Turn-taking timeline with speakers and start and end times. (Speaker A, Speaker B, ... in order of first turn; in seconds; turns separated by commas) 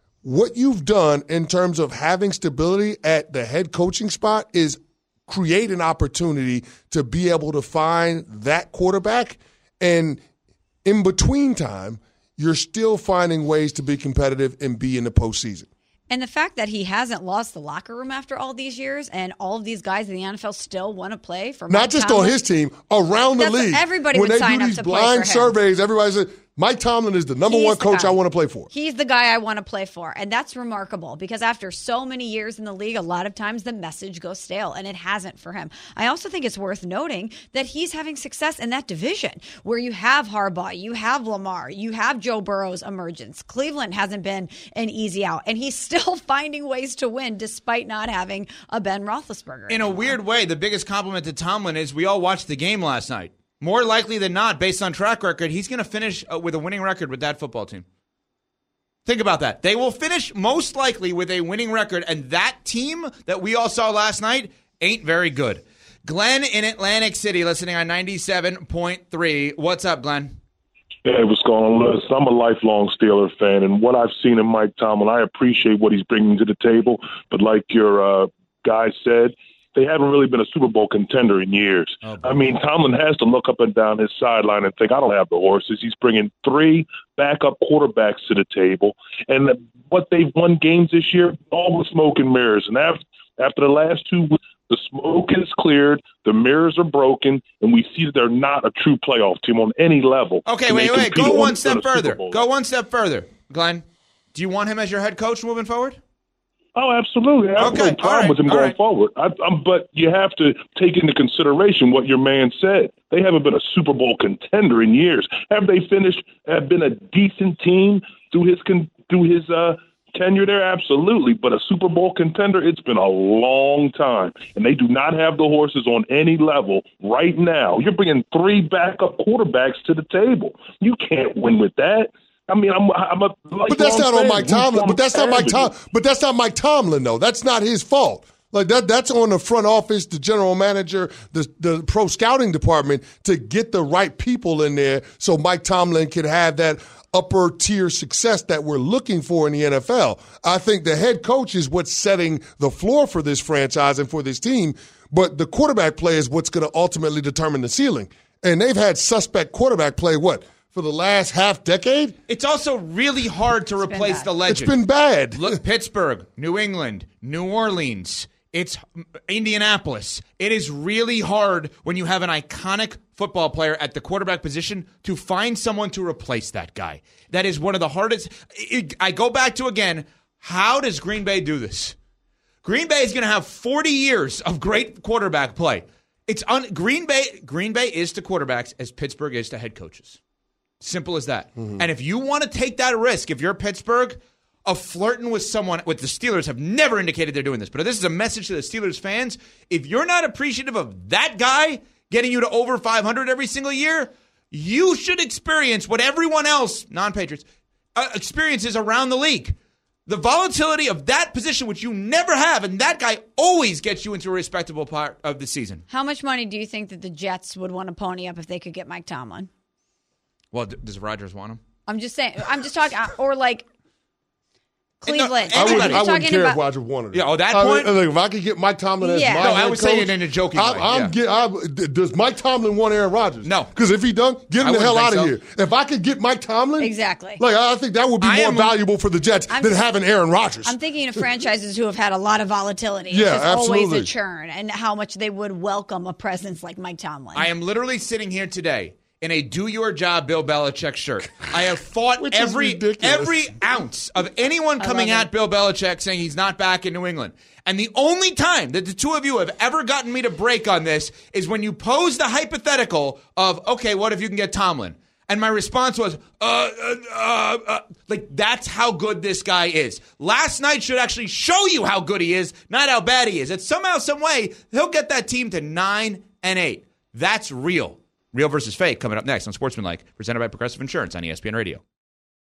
Speaker A: 0.2-10.2, Speaker A: 10.8-15.7, Speaker B: 16.1-22.4, Speaker A: 21.7-28.7, Speaker B: 23.4-25.5, Speaker B: 27.4-28.2, Speaker B: 28.7-50.1, Speaker C: 49.7-57.8, Speaker C: 59.0-70.3, Speaker D: 71.0-102.4, Speaker C: 82.0-82.5, Speaker C: 100.5-106.0, Speaker D: 106.7-135.7, Speaker C: 107.6-108.8, Speaker A: 133.7-162.2, Speaker C: 162.3-164.7, Speaker B: 163.9-164.3, Speaker A: 164.4-165.6, Speaker C: 165.3-181.9, Speaker C: 182.6-190.2, Speaker C: 190.8-207.4, Speaker A: 191.6-191.8, Speaker C: 207.9-209.6, Speaker C: 210.1-215.8, Speaker B: 215.9-219.5, Speaker C: 220.5-221.6, Speaker B: 221.9-223.7, Speaker C: 225.0-226.1, Speaker B: 225.0-226.6, Speaker A: 225.5-240.8, Speaker C: 227.1-227.9, Speaker B: 229.0-229.6, Speaker C: 229.4-231.1, Speaker C: 233.4-233.7, Speaker C: 234.6-235.3, Speaker B: 236.8-237.4, Speaker C: 238.2-238.8, Speaker B: 239.5-239.8, Speaker B: 240.6-247.5, Speaker A: 243.1-244.1, Speaker C: 247.3-281.8, Speaker A: 252.2-253.5, Speaker B: 254.8-255.3